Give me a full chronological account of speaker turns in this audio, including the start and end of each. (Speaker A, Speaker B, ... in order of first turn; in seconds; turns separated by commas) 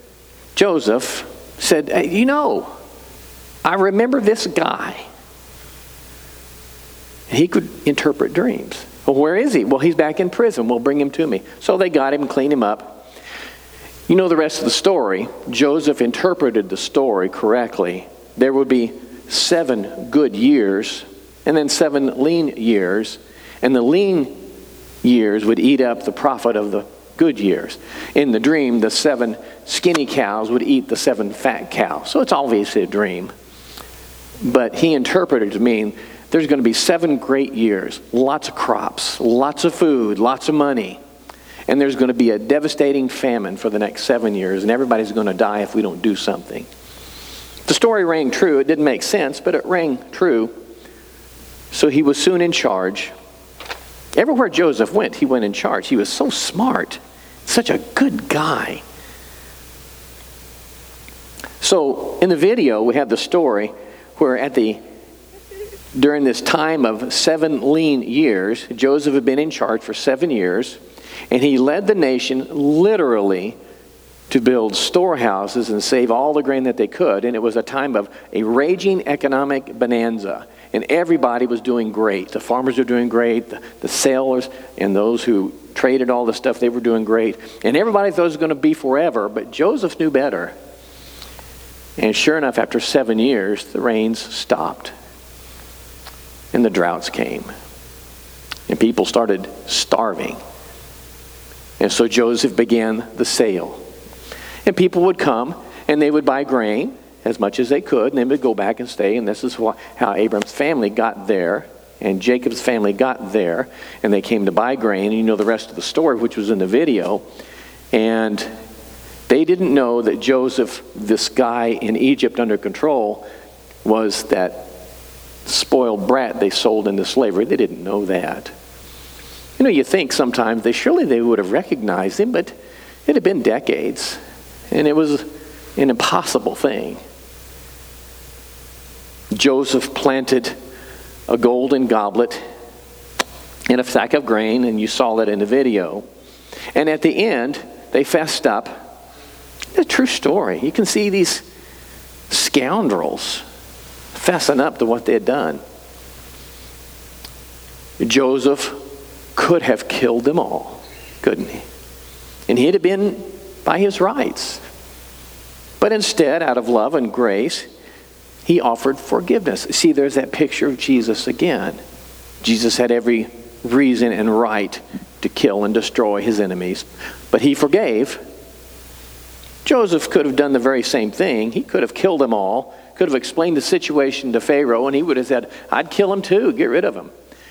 Speaker A: 0.6-2.7, Speaker A: 3.6-5.1, Speaker A: 7.3-13.0, Speaker A: 14.1-24.4, Speaker A: 25.0-33.3, Speaker A: 34.4-41.0, Speaker A: 41.7-46.7, Speaker A: 47.7-50.5, Speaker A: 51.7-53.1, Speaker A: 54.1-58.8, Speaker A: 61.6-64.8, Speaker A: 65.9-70.8, Speaker A: 71.3-73.6, Speaker A: 74.3-90.5, Speaker A: 92.0-94.9, Speaker A: 96.5-97.5, Speaker A: 98.7-100.4, Speaker A: 101.8-103.8, Speaker A: 104.7-117.2, Speaker A: 117.9-118.5, Speaker A: 119.3-123.3, Speaker A: 123.8-124.7, Speaker A: 125.5-128.5, Speaker A: 129.6-132.5, Speaker A: 133.1-134.2, Speaker A: 134.7-137.0, Speaker A: 139.3-140.6, Speaker A: 141.3-142.4, Speaker A: 143.7-146.0, Speaker A: 146.7-148.8, Speaker A: 149.8-151.4, Speaker A: 152.3-153.4, Speaker A: 154.1-155.6, Speaker A: 158.0-158.8, Speaker A: 159.4-161.7, Speaker A: 162.5-164.6, Speaker A: 165.8-167.7, Speaker A: 168.4-171.8, Speaker A: 172.4-178.2, Speaker A: 179.7-187.1